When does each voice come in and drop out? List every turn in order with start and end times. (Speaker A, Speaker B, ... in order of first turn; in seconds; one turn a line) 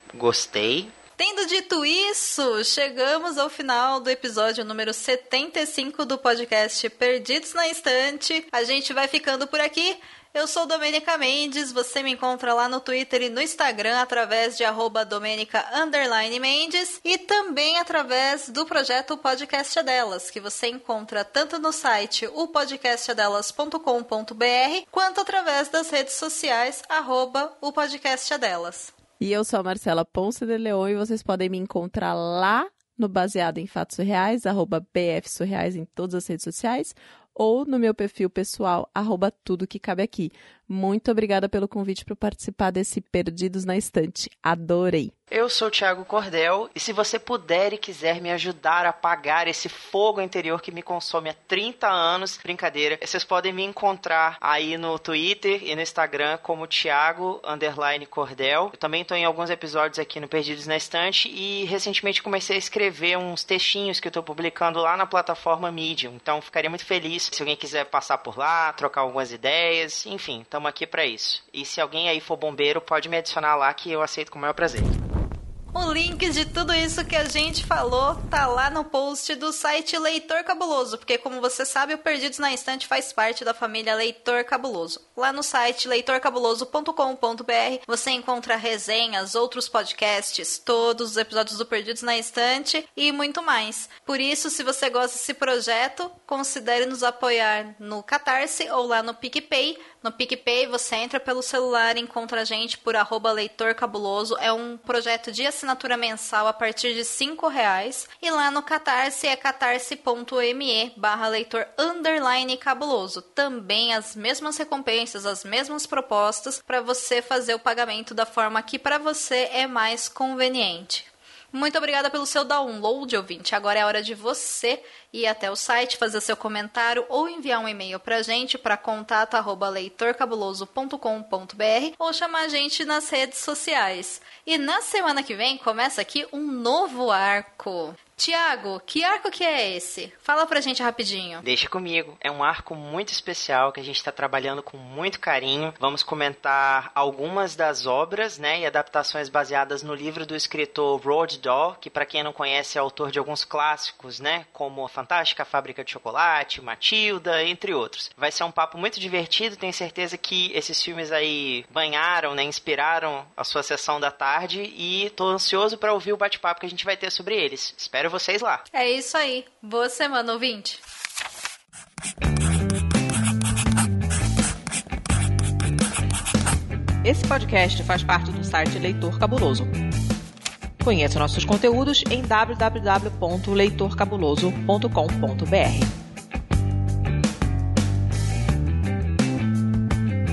Speaker A: 0.1-0.9
Speaker B: 1.2-28.9
Speaker C: 29.2-45.1
Speaker A: 45.3-75.0
Speaker B: 75.7-141.4
Speaker A: 141.4-168.6
Speaker B: 168.7-170.8
Speaker D: 177.0-179.7
Speaker D: 180.8-185.9